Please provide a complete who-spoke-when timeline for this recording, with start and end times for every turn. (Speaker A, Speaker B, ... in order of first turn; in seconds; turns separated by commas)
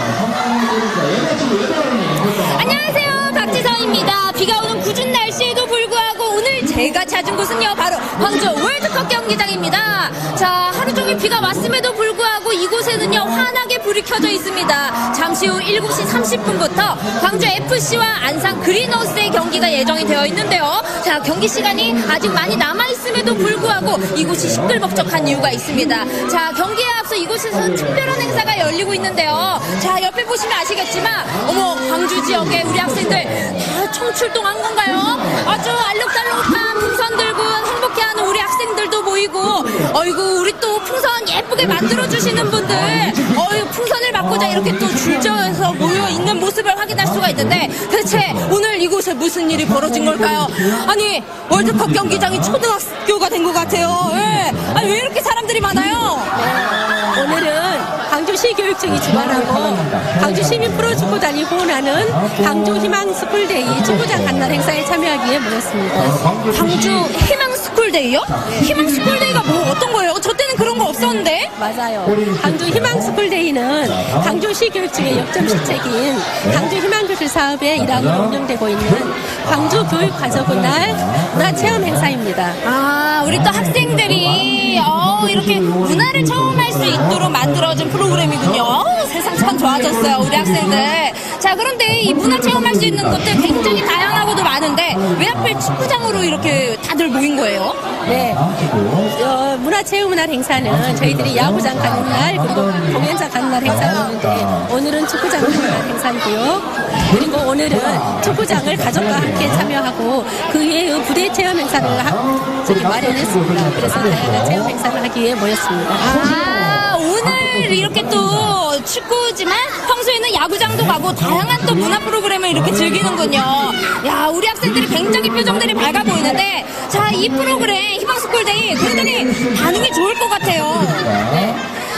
Speaker A: 2.2-56.4, Speaker B: 56.4-66.3, Speaker A: 66.2-71.5, Speaker B: 68.5-68.7, Speaker B: 71.6-82.6, Speaker A: 82.6-97.9, Speaker B: 98.1-98.5, Speaker B: 99.1-116.1, Speaker A: 116.0-131.4, Speaker B: 131.2-131.6